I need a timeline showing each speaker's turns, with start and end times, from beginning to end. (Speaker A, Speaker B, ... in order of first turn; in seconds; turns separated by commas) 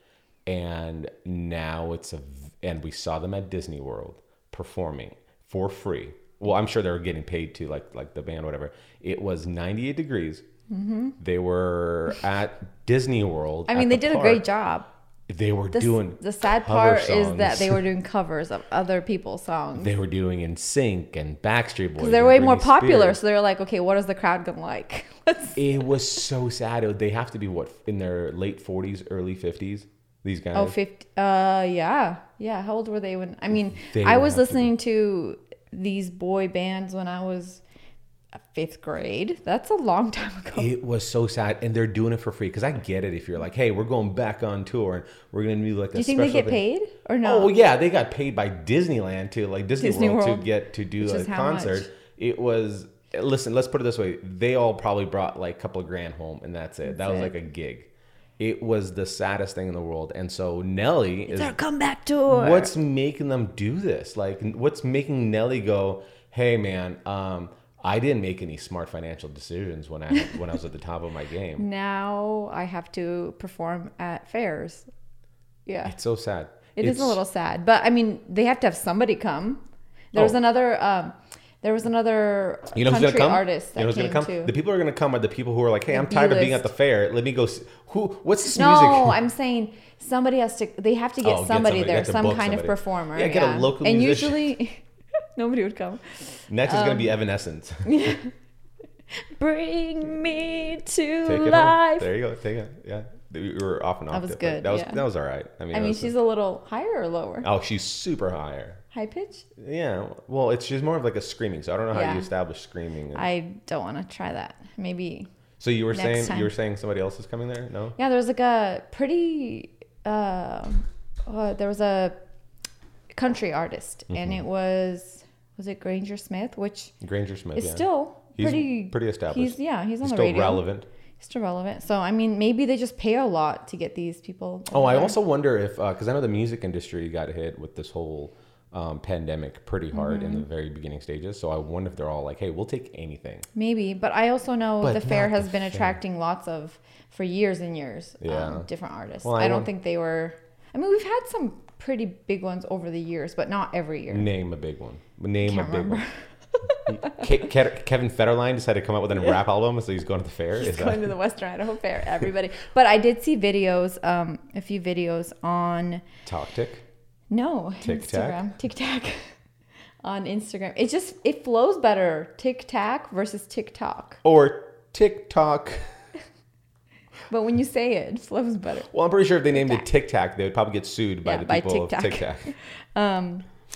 Speaker A: 0.5-10.4, Speaker B: 10.7-11.2, Speaker A: 11.2-14.4, Speaker B: 13.7-14.9, Speaker A: 15.3-17.8, Speaker B: 15.7-19.9, Speaker A: 19.8-23.2, Speaker B: 22.0-25.9, Speaker A: 25.6-30.8, Speaker B: 30.5-37.6, Speaker A: 33.7-34.7, Speaker B: 38.4-40.7, Speaker A: 40.5-46.6, Speaker B: 46.0-47.5, Speaker A: 47.2-61.6, Speaker B: 49.8-51.9, Speaker B: 56.9-57.4, Speaker B: 61.3-62.7, Speaker A: 62.3-71.7, Speaker B: 71.6-74.9, Speaker B: 75.7-75.9, Speaker A: 75.9-77.2, Speaker B: 76.8-84.5, Speaker A: 82.7-89.2, Speaker B: 85.9-86.7, Speaker B: 88.5-94.8, Speaker A: 91.2-94.6, Speaker B: 95.4-97.1, Speaker A: 96.5-98.0, Speaker B: 97.8-98.3, Speaker B: 99.3-102.1, Speaker A: 101.2-106.1, Speaker B: 104.1-105.0, Speaker B: 105.7-107.5, Speaker A: 107.4-108.8, Speaker B: 108.9-109.5, Speaker A: 109.6-113.3, Speaker B: 111.9-112.3, Speaker B: 113.1-115.3, Speaker A: 115.6-118.0, Speaker B: 115.9-116.5, Speaker B: 118.0-122.2, Speaker B: 123.1-126.9, Speaker A: 124.1-124.4, Speaker A: 127.0-130.8, Speaker B: 127.5-130.7, Speaker B: 131.2-135.2, Speaker A: 134.7-143.5, Speaker B: 139.9-140.5, Speaker B: 143.6-154.3, Speaker A: 144.8-146.0, Speaker A: 148.2-148.7, Speaker A: 149.2-149.7, Speaker A: 154.1-156.0, Speaker B: 155.4-157.3, Speaker A: 156.9-161.1, Speaker B: 160.6-166.1, Speaker A: 166.2-166.8, Speaker B: 167.3-169.3, Speaker A: 167.8-168.4, Speaker B: 170.0-174.2, Speaker A: 174.2-175.8, Speaker B: 177.3-178.9, Speaker A: 178.9-182.5, Speaker B: 179.5-179.9, Speaker B: 181.2-183.4